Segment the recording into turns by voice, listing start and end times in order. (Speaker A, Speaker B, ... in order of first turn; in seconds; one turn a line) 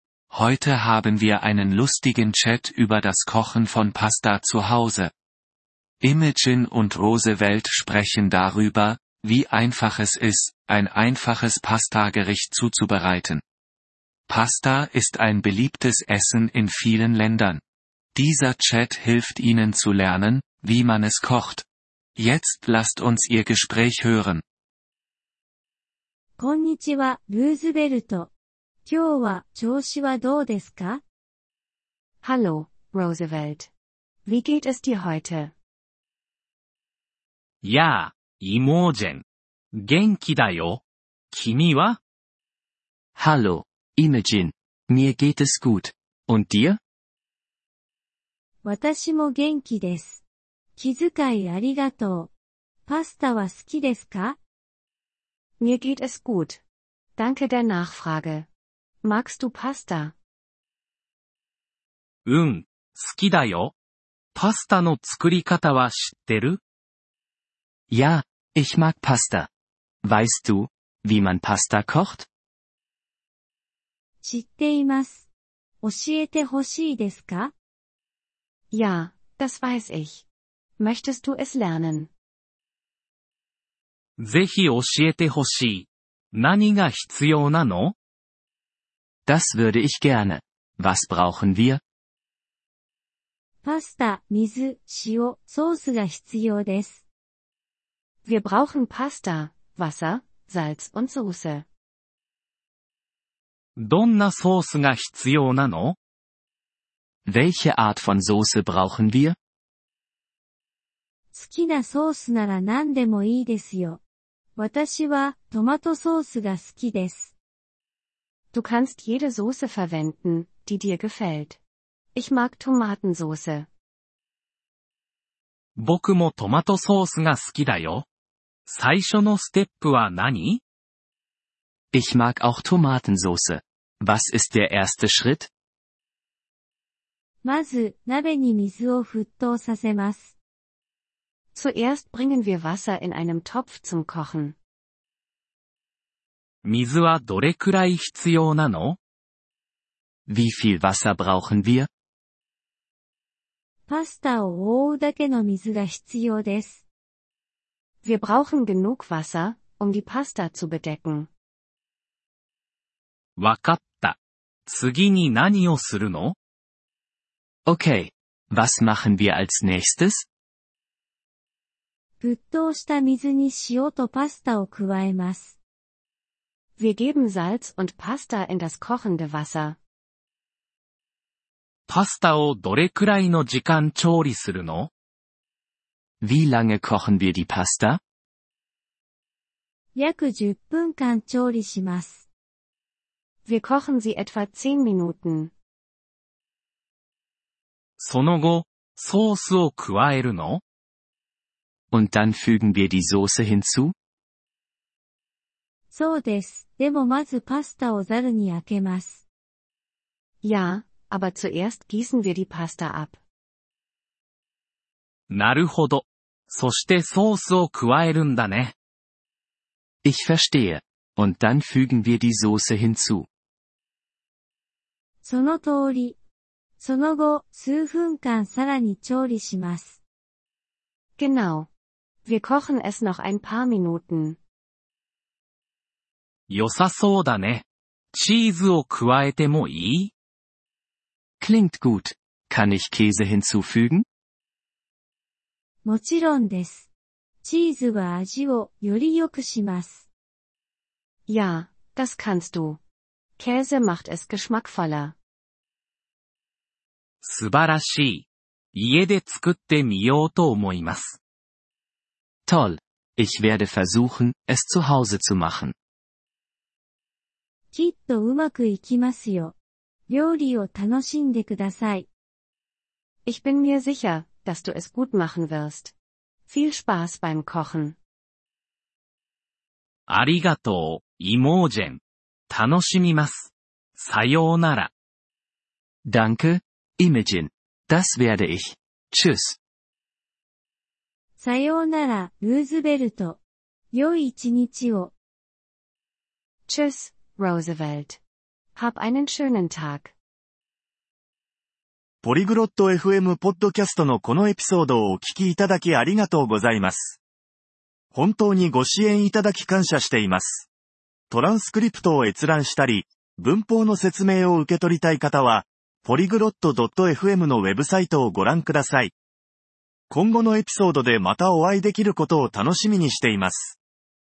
Speaker A: 0.3-5.1
Speaker A: 6.0-13.4
Speaker A: 14.3-17.6
Speaker A: 18.1-24.4
Speaker B: 26.4-28.3
Speaker B: 28.8-31.0
Speaker C: 32.2-33.7
Speaker C: 34.2-35.5
Speaker D: 37.6-42.0
Speaker E: 43.1-46.8
Speaker B: 48.6-50.2
Speaker B: 50.8-52.3
Speaker B: 52.9-54.4
Speaker C: 55.6-56.6
Speaker C: 57.2-58.5
Speaker C: 59.0-60.1
Speaker D: 62.2-63.7
Speaker D: 64.3-66.6
Speaker E: 67.9-69.5
Speaker E: 70.0-72.3
Speaker B: 74.2-75.3
Speaker B: 75.8-77.5
Speaker C: 78.7-80.2
Speaker C: 80.8-82.1
Speaker D: 84.2-87.9
Speaker E: 89.2-91.8
Speaker B: 93.6-97.0
Speaker C: 98.2-101.7
Speaker D: 103.8-106.0
Speaker E: 107.2-109.4
Speaker B: 111.3-114.0
Speaker B: 114.5-117.3
Speaker C: 118.5-121.6
Speaker C: 122.1-123.7
Speaker D: 125.8-128.0
Speaker D: 128.7-130.6
Speaker E: 131.9-135.5
Speaker B: 137.4-140.3
Speaker C: 141.5-144.6
Speaker D: 146.6-149.0
Speaker E: 150.3-151.9
Speaker B: 153.9-156.8
Speaker C: 158.0-161.3
Speaker D: 163.4-166.3
Speaker E: 167.7-170.3
Speaker B: 172.2-175.6
Speaker C: 176.8-179.8
Speaker D: 181.9-184.9
Speaker E: 186.2-188.0
Speaker B: 189.9-192.3
Speaker C: 193.4-195.5
Speaker D: 198.0-200.6
Speaker E: 201.9-203.9
Speaker B: 205.9-209.2
Speaker C: 210.4-213.2
Speaker D: 215.3-218.7
Speaker E: 220.0-223.3
Speaker B: 225.2-226.2
Speaker B: 226.8-230.0
Speaker C: 231.2-231.7
Speaker C: 232.2-234.4
Speaker D: 236.5-240.1
Speaker E: 241.4-244.0
Speaker B: 245.8-246.9
Speaker B: 247.4-250.1
Speaker C: 251.3-252.8
Speaker C: 253.4-255.2
Speaker D: 257.2-261.2
Speaker E: 262.4-265.7
Speaker B: 267.7-269.5
Speaker B: 270.1-272.1
Speaker C: 273.2-275.9
Speaker C: 276.5-277.9
Speaker D: 280.1-284.9
Speaker E: 286.1-289.6
Speaker B: 291.4-293.4
Speaker B: 293.9-295.1
Speaker C: 296.7-298.2
Speaker C: 298.8-300.1
Speaker F: 302.2-307.2
Speaker F: 308.1-310.7
Speaker F: 311.3-319.1
Speaker F: 320.1-323.8